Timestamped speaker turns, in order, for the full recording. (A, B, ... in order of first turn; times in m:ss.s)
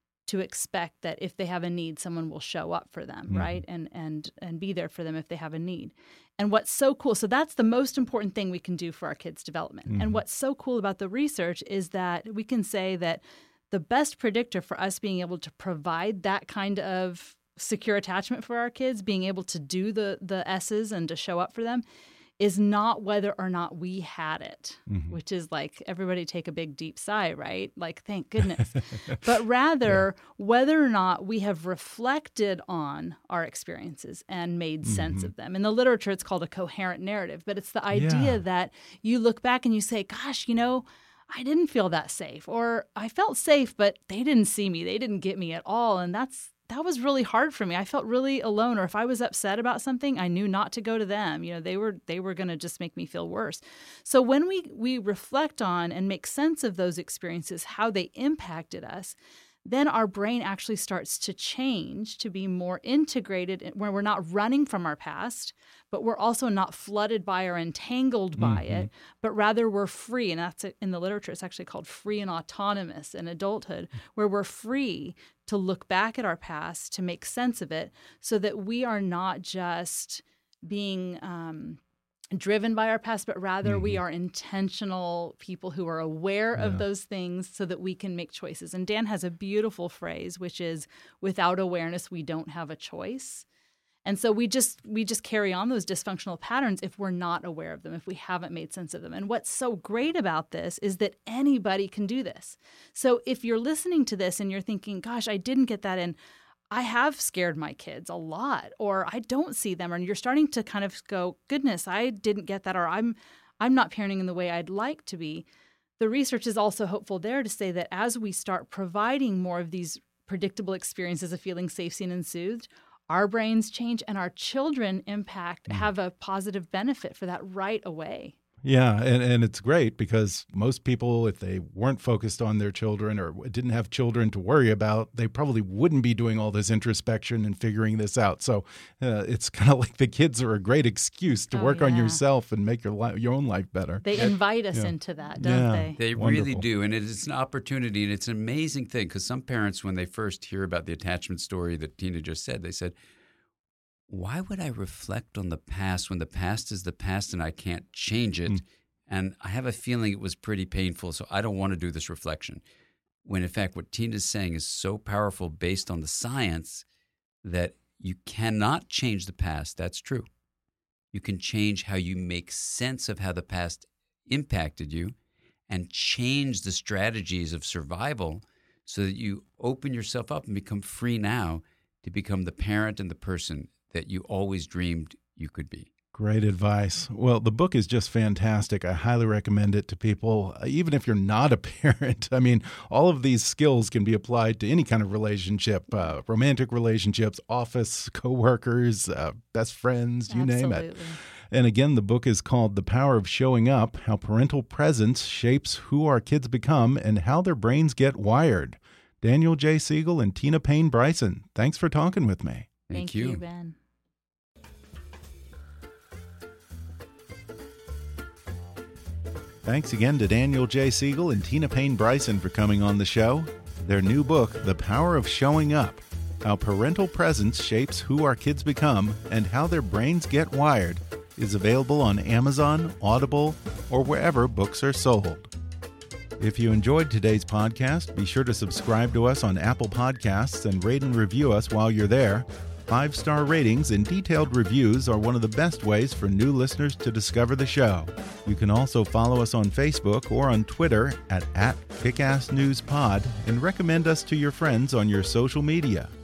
0:00.3-0:21.8 A
0:03.3-0:03.6 B
0:09.9-0:10.2 B
0:22.4-1:21.8 A
0:24.9-0:25.2 B
0:28.4-0:29.2 B
0:34.8-0:35.3 B
0:37.9-0:38.4 B
1:08.4-1:08.9 B
1:22.3-1:33.5 A
1:23.6-1:24.0 B
1:26.6-1:26.8 B
1:34.0-1:46.2 A
1:46.7-1:55.5 A
1:56.0-2:08.4 A
2:08.6-2:24.1 B
2:21.5-2:22.2 A
2:24.0-2:26.0 A
2:24.7-2:26.6 B
2:26.0-2:33.0 C
2:34.1-2:42.6 C
2:43.2-2:46.8 C
2:47.4-2:50.3 C
2:51.1-2:55.2 C
2:55.7-3:05.9 C
3:06.1-3:21.0 B
3:20.3-3:21.2 A
3:21.5-3:32.7 B
3:32.9-3:33.4 C
3:32.9-3:33.8 A
3:39.6-3:55.5 B
3:56.4-4:16.1 B